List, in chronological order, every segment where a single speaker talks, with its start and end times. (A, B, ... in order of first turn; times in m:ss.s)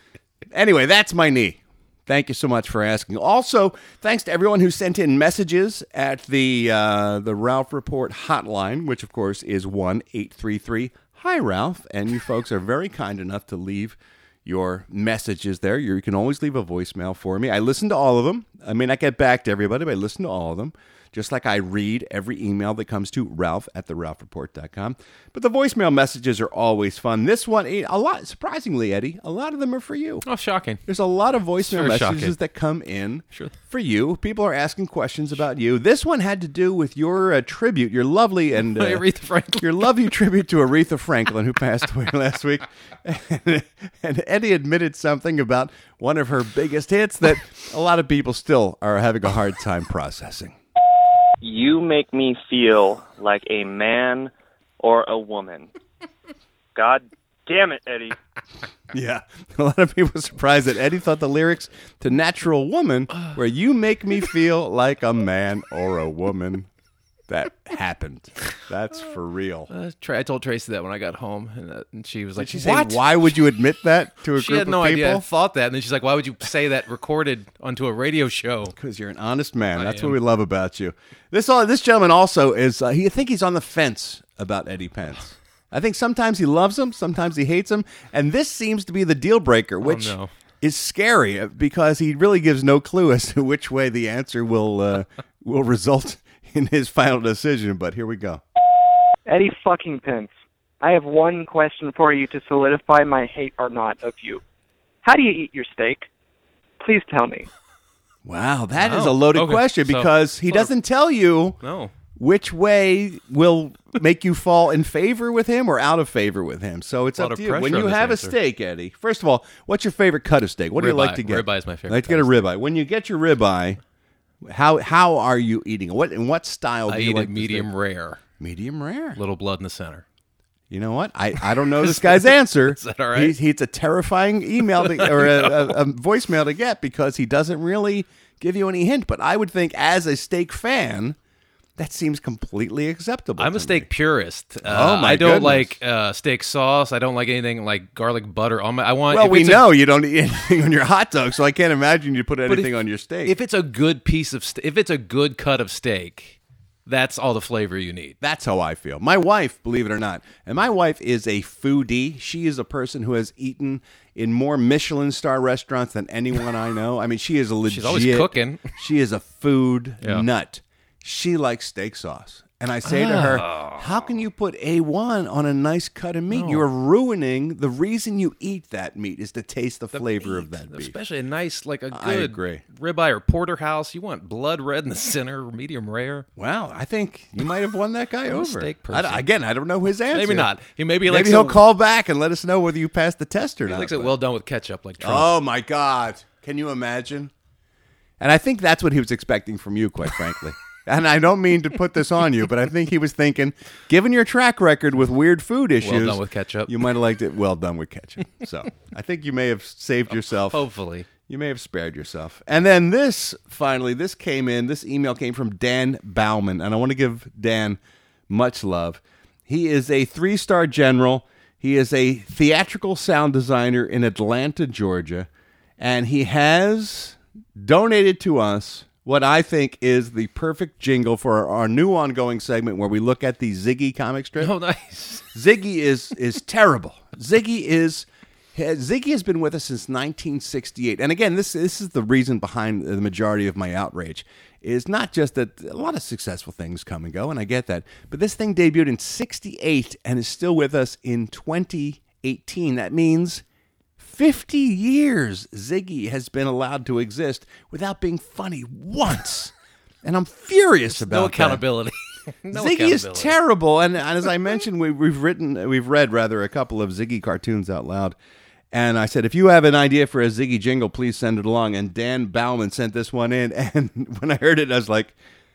0:00.5-0:30.2 A
0:30.2-0:30.8 B
0:30.8-0:39.0 A
0:31.6-0:32.3 B
0:38.7-0:39.9 B
0:39.6-0:50.6 A
0:51.4-0:55.7 C
0:56.7-0:58.2 C
0:58.9-1:06.7 A
1:07.3-1:09.7 A
1:09.7-1:13.1 B
1:12.4-1:15.2 A
1:14.3-1:18.7 B
1:18.7-1:38.4 A
1:19.7-1:20.2 B
1:29.8-1:30.3 B
1:39.2-1:44.4 D
1:45.0-1:46.1 D
1:46.8-1:47.5 D
1:48.2-1:51.6 A
1:48.8-1:50.7 B
1:51.6-1:51.9 B
1:52.2-2:03.8 A
1:57.2-1:58.3 B
2:00.8-2:02.5 B
2:04.4-2:07.7 A
2:06.9-2:08.2 B
2:08.4-2:09.2 A
2:09.2-2:10.0 B
2:10.7-2:21.2 A
2:11.6-2:13.4 B
2:14.7-2:15.8 B
2:21.8-2:23.9 A
2:23.4-2:29.7 B
2:24.6-2:25.8 A
2:29.1-2:33.4 A
2:32.5-2:38.2 B
2:38.2-3:01.0 A
2:47.7-2:48.7 B
2:52.8-2:54.1 B
2:56.3-2:56.6 B
2:59.9-3:06.3 B
3:01.9-3:02.6 A
3:06.4-3:10.5 A
3:08.3-3:09.2 B
3:10.1-3:11.6 B
3:11.0-3:14.1 A
3:13.6-3:15.3 B
3:15.0-3:17.3 A
3:18.2-3:45.3 A
3:25.8-3:26.7 B
3:30.1-3:31.1 B
3:45.8-3:54.5 A
3:54.4-3:55.3 B
3:55.3-4:13.4 A
4:14.0-4:21.6 A
4:20.9-4:23.3 B
4:22.5-4:28.2 A
4:28.7-4:35.2 A